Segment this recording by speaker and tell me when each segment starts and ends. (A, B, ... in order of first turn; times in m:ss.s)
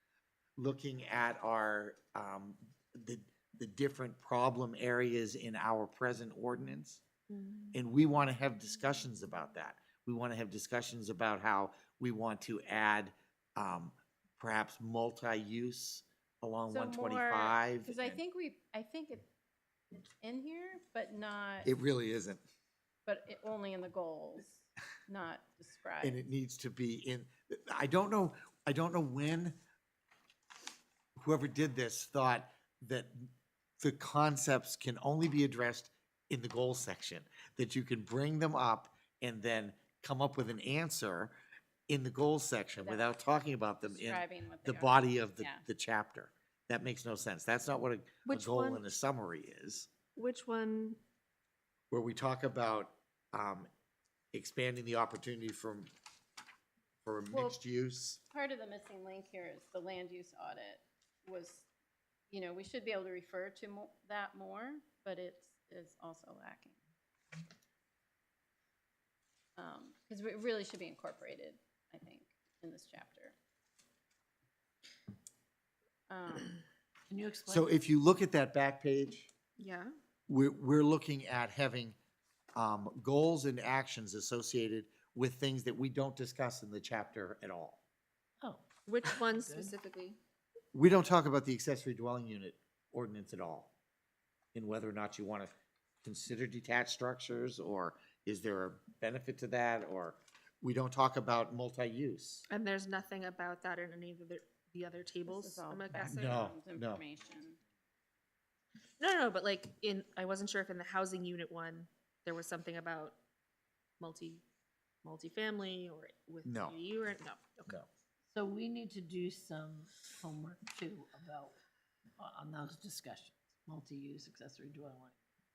0:00.6-0:07.0 A
0:07.3-0:07.8 B
0:07.7-0:18.2 A
0:16.7-0:19.3 C
0:20.0-0:21.7 C
0:21.6-0:22.4 A
0:23.1-0:26.2 C
0:26.0-0:29.6 A
0:31.2-0:41.3 A
0:41.9-0:49.9 A
0:42.8-0:45.6 C
0:48.3-0:48.8 B
0:50.2-0:51.0 B
0:51.9-0:53.7 A
0:54.3-0:55.9 A
0:57.0-0:58.2 A
0:57.3-0:57.6 C
0:58.3-1:01.7 C
1:02.3-1:06.8 C
1:09.6-1:13.4 C
1:16.1-1:16.6 C
1:17.1-1:17.7 D
1:17.5-1:19.3 A
1:19.6-1:19.9 B
1:20.3-1:22.0 A
1:22.6-1:27.8 A
1:28.4-1:29.7 D
1:28.9-1:30.2 B
1:30.7-1:33.7 A
1:34.6-1:42.4 A
1:42.5-1:46.5 B
1:45.3-1:47.6 C
1:45.9-1:47.0 A
1:49.0-1:53.2 B
1:54.0-1:54.4 B
1:55.0-1:57.7 B
1:56.4-1:56.8 A
1:58.3-2:01.6 D
2:02.2-2:05.2 D